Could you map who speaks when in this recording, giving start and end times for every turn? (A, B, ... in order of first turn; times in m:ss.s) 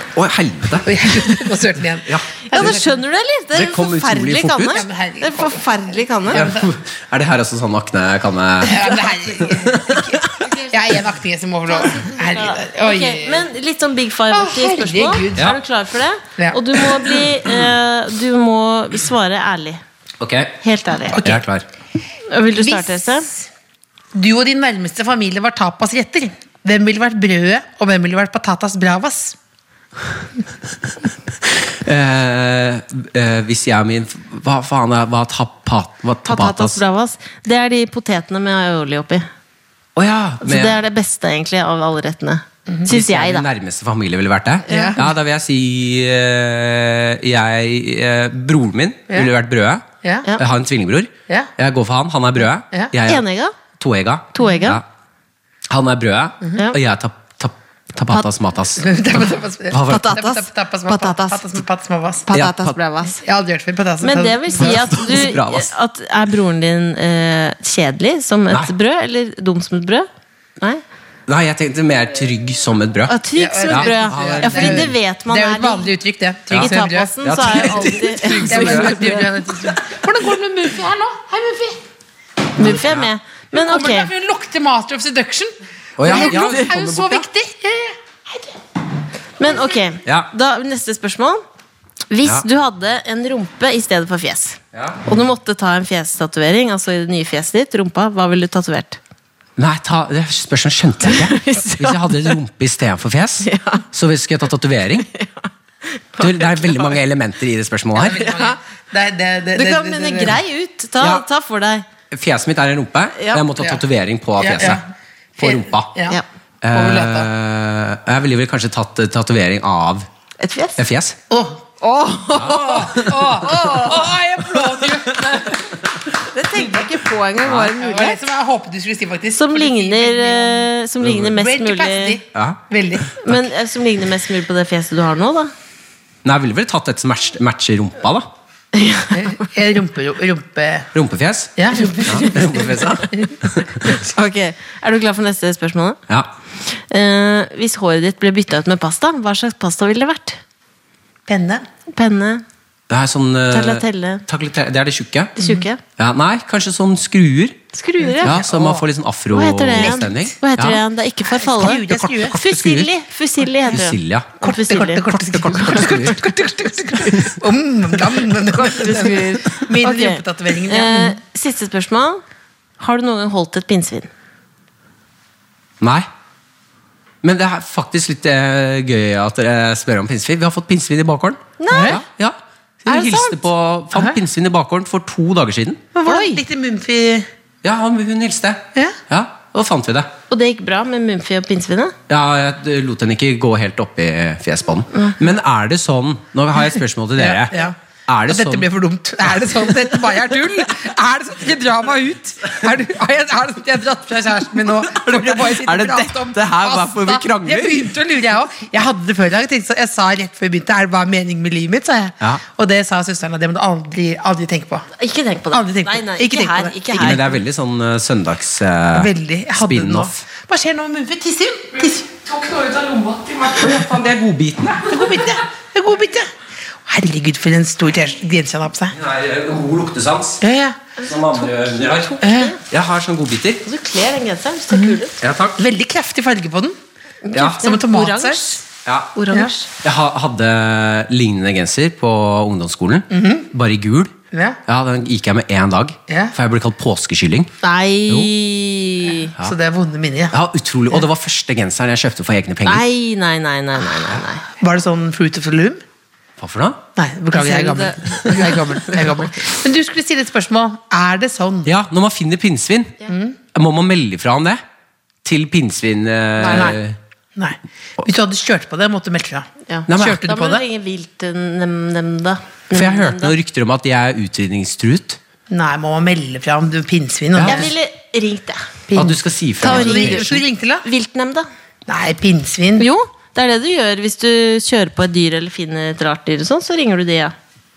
0:00.2-0:01.3 A
0:00.8-0:03.0 B
0:02.5-0:06.5 C
0:03.5-0:04.8 A
0:04.7-0:06.7 B
0:06.3-0:08.9 A
0:08.6-0:13.5 B
0:09.5-0:10.2 A
0:10.4-0:10.7 C
0:11.7-0:19.8 C
0:14.3-0:15.6 B
0:16.4-0:17.2 B
0:20.2-0:20.6 A
0:20.6-0:21.3 C
0:21.1-0:21.4 B
0:21.2-0:21.6 A
0:22.3-0:23.3 C
0:22.6-0:23.4 B
0:24.1-0:29.4 B
0:31.5-0:36.8 A
0:36.3-0:39.3 C
0:40.0-0:40.8 A
0:40.4-0:43.5 C
0:42.9-0:49.9 A
0:44.7-0:45.0 C
0:44.7-0:45.0 B
0:50.0-0:50.3 B
0:50.4-0:54.8 A
0:53.0-0:53.6 C
0:54.3-0:54.8 C
0:55.7-0:59.0 A
0:58.8-1:02.3 B
0:59.7-1:00.2 A
0:59.9-1:01.5 C
1:02.3-1:03.2 C
1:02.3-1:02.8 A
1:03.1-1:05.3 B
1:04.0-1:10.1 C
1:04.6-1:05.7 A
1:11.3-1:13.2 A
1:13.1-1:15.9 C
1:13.4-1:21.8 B
1:13.7-1:15.0 A
1:16.5-1:19.8 A
1:16.5-1:19.3 C
1:22.6-1:24.1 C
1:22.6-1:23.1 A
1:23.5-1:28.6 B
1:26.0-1:27.2 A
1:26.0-1:26.6 C
1:29.4-1:31.4 C
1:30.0-1:30.3 A
1:32.1-1:39.0 C
1:34.7-1:35.1 A
1:39.6-1:45.1 A
1:41.0-1:42.3 C
1:43.4-1:43.8 C
1:45.1-1:47.0 C
1:46.2-1:48.2 A
1:47.9-1:50.4 B
1:48.1-1:48.6 C
1:49.5-1:51.9 C
1:52.1-1:54.8 A
1:53.2-1:53.5 C
1:54.4-1:54.9 B
1:55.4-1:55.9 A
1:55.4-1:56.2 B
1:56.6-2:00.1 A
1:56.7-1:57.3 B
2:00.4-2:00.8 C
2:00.8-2:01.2 A
2:01.3-2:01.7 B
2:01.8-2:04.1 C
2:02.3-2:05.8 B
2:02.4-2:03.4 A
2:04.6-2:05.0 A
2:06.2-2:08.3 C
2:07.4-2:07.7 A
2:07.7-2:13.1 B
2:09.3-2:12.2 C
2:11.0-2:11.3 A
2:12.3-2:13.5 A
2:13.2-2:15.5 C
2:16.2-2:18.3 A
2:18.7-2:19.4 C
2:19.1-2:20.9 B
2:20.9-2:23.9 A
2:21.6-2:23.4 B
2:21.9-2:22.3 C
2:23.8-2:26.0 C
2:26.6-2:30.4 C
2:31.3-2:31.6 B
2:31.9-2:32.4 C
2:32.9-2:35.4 A
2:33.5-2:34.2 C
2:35.4-2:35.8 C
2:36.0-2:37.6 A
2:37.7-2:38.3 C
2:38.0-2:38.9 B
2:38.2-2:40.8 A
2:39.3-2:41.8 C
2:39.7-2:40.2 B
2:41.4-2:42.4 B
2:41.6-2:42.9 A
2:42.3-2:45.8 C
2:43.7-2:44.4 A
2:44.4-2:51.2 B
2:45.0-2:46.3 A
2:48.5-2:52.2 C
2:52.8-2:54.1 C
2:55.8-2:56.1 A
2:57.2-3:05.9 A
3:01.6-3:02.0 C
3:01.7-3:02.0 B
3:02.9-3:03.4 C
3:06.0-3:07.3 B
3:06.0-3:06.4 C
3:07.6-3:10.1 A
3:10.3-3:12.0 C
3:12.1-3:18.7 A
3:17.2-3:17.8 B
3:18.3-3:34.9 B
3:24.8-3:27.9 A
3:35.0-3:37.4 C
3:35.5-3:37.2 B
3:36.9-3:40.2 A
3:38.9-3:42.1 B
3:42.3-3:43.3 C
3:42.5-3:44.9 A
3:44.9-3:46.3 B
3:46.8-3:49.0 B
3:48.9-3:50.4 A
3:50.4-3:50.9 B
3:51.0-3:53.6 A
3:51.0-3:52.6 C
3:52.2-3:52.6 B
3:53.6-3:55.2 C
3:54.7-3:55.0 B
3:55.2-3:55.6 A
3:55.6-3:56.8 B
3:57.2-3:58.6 C
3:57.3-3:57.6 A
3:57.5-3:58.6 B
3:58.8-3:59.1 A
3:59.2-3:59.7 C
3:59.8-4:04.1 A
4:03.1-4:03.5 B
4:04.3-4:04.6 B
4:04.7-4:07.5 A
4:06.1-4:06.3 B
4:07.6-4:09.3 C
4:09.4-4:10.3 B
4:10.3-4:12.8 A
4:12.6-4:14.4 C
4:14.6-4:15.8 B
4:16.4-4:16.8 A
4:17.0-4:21.7 B
4:17.3-4:18.8 C
4:18.2-4:18.5 A
4:21.6-4:23.0 A
4:23.1-4:23.4 B
4:23.5-4:24.6 A
4:25.2-4:27.0 A
4:26.4-4:26.8 C
4:26.4-4:26.8 B
4:27.4-4:30.6 B
4:29.7-4:33.4 C
4:29.9-4:30.3 A
4:32.7-4:35.2 A
4:35.5-4:37.7 B
4:37.4-4:37.7 A
4:37.4-4:38.7 C
4:38.9-4:40.8 B
4:39.0-4:40.4 A
4:39.6-4:41.5 C
4:41.9-4:42.9 B
4:42.8-4:47.3 C